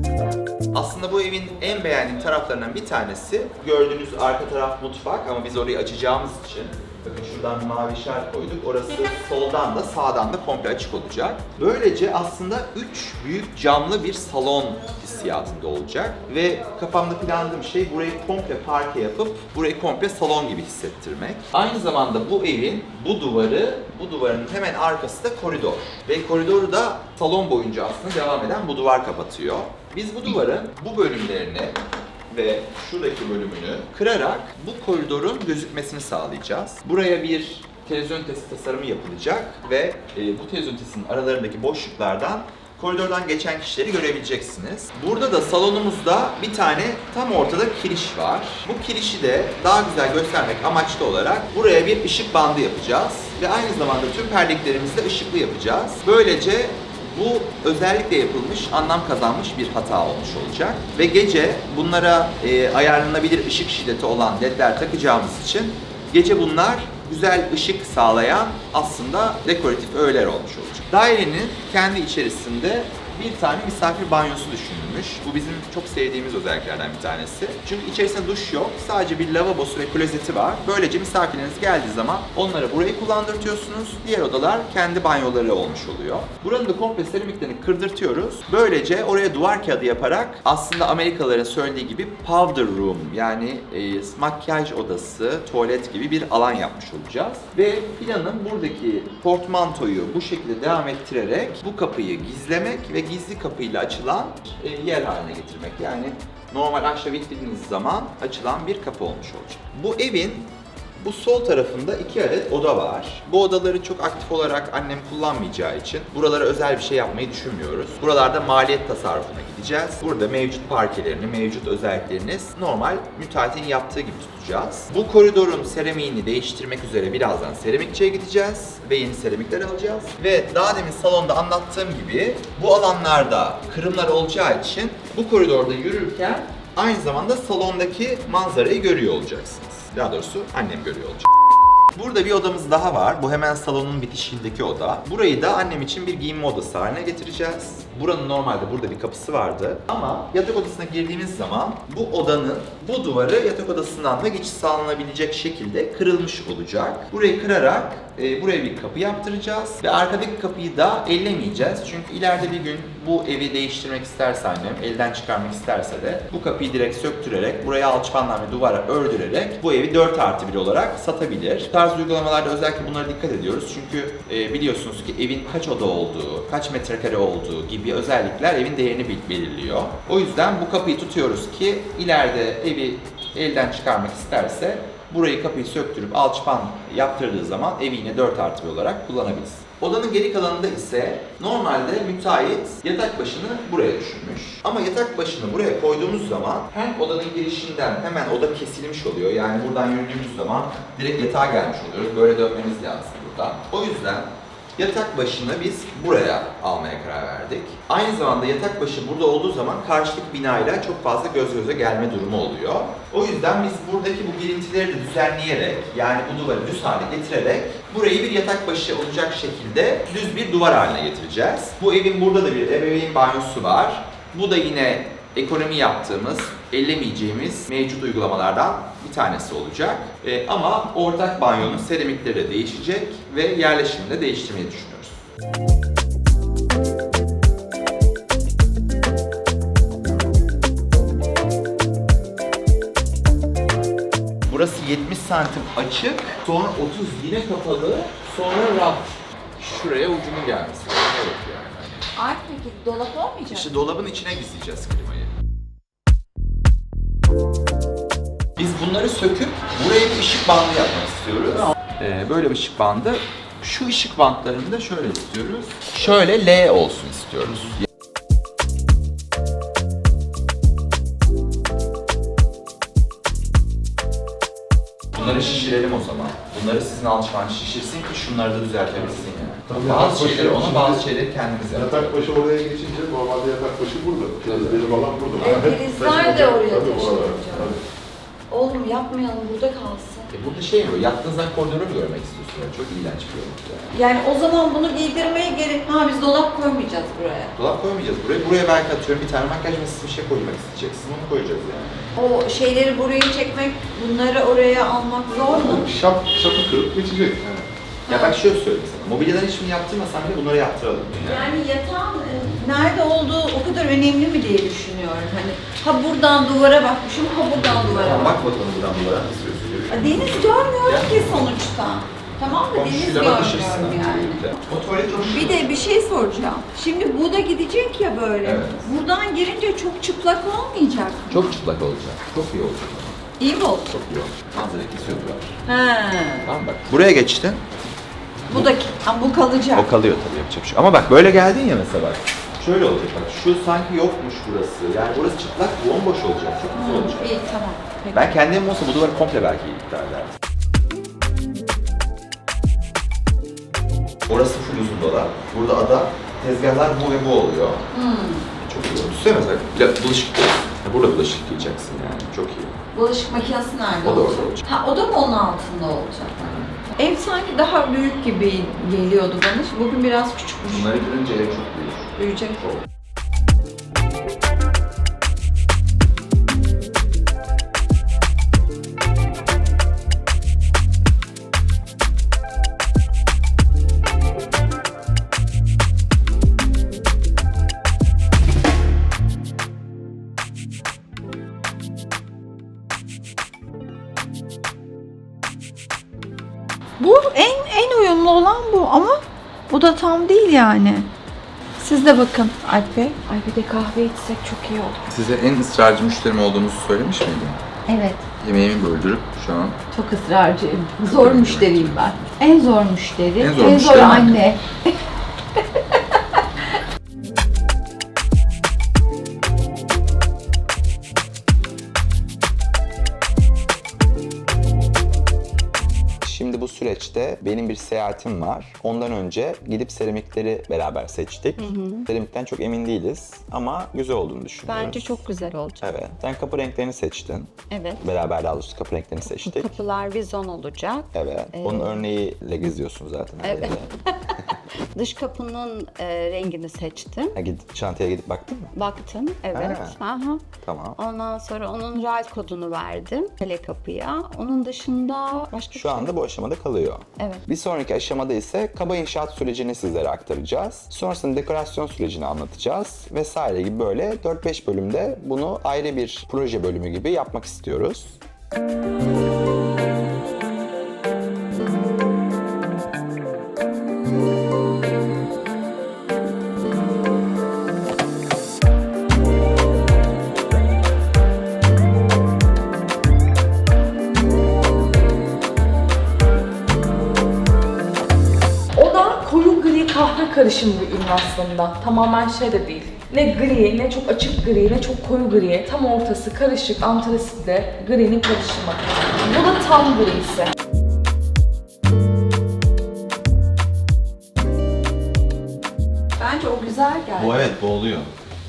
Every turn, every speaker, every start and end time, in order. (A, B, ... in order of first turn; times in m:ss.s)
0:00.7-0:31.8 A
0:32.3-2:21.3 A
2:22.0-3:55.2 A
4:04.5-4:12.1 A
4:12.2-4:13.9 B
4:13.5-4:15.3 A
4:18.6-4:27.8 A
4:35.1-4:42.1 A
4:39.7-4:41.1 C
4:41.7-4:47.8 C
4:44.4-4:44.9 A
4:45.4-4:47.8 B
4:48.5-4:50.4 B
4:50.3-4:53.9 A
4:53.9-4:57.5 B
4:57.6-5:02.1 A
5:02.2-5:05.9 B
5:05.5-5:07.7 C
5:08.1-5:08.4 B
5:08.1-5:11.5 A
5:11.2-5:18.4 B
5:17.5-5:21.5 A
5:19.9-5:31.6 B
5:22.7-5:25.8 A
5:28.4-5:28.9 A
5:31.3-5:33.2 A
5:33.4-5:34.0 B
5:33.9-5:35.6 A
5:35.6-5:36.5 B
5:36.4-5:37.6 A
5:38.5-5:39.9 B
5:39.8-5:47.4 A
5:46.7-5:48.4 B
5:48.1-5:50.3 A
5:54.3-5:57.8 A
5:57.9-5:58.5 B
5:58.6-6:02.7 A
6:02.9-6:06.4 B
6:04.0-6:04.6 A
6:06.4-6:06.8 A
6:07.0-6:10.9 B
6:10.6-6:12.6 A
6:12.2-6:12.7 B
6:37.0-6:41.1 B
6:41.8-6:45.0 B
6:45.1-6:47.6 A
6:47.9-6:48.2 B
6:48.4-6:49.8 A
6:49.9-6:54.6 B
6:51.0-6:52.4 A
6:53.4-6:54.4 A
7:06.2-7:15.2 A
7:11.6-7:12.1 B
7:14.7-7:15.8 B
7:15.8-7:19.7 A
7:17.7-7:18.0 B
7:19.2-7:22.0 B
7:21.1-7:23.9 A
7:23.4-7:27.4 B
7:27.4-7:28.7 A
7:28.8-7:30.4 B
7:29.5-7:30.0 A
7:30.6-7:31.0 A
7:31.0-7:36.1 B
7:35.7-7:48.2 A
7:37.2-7:37.4 B
8:08.8-8:20.5 D
8:26.2-8:27.6 B
8:27.2-8:28.1 A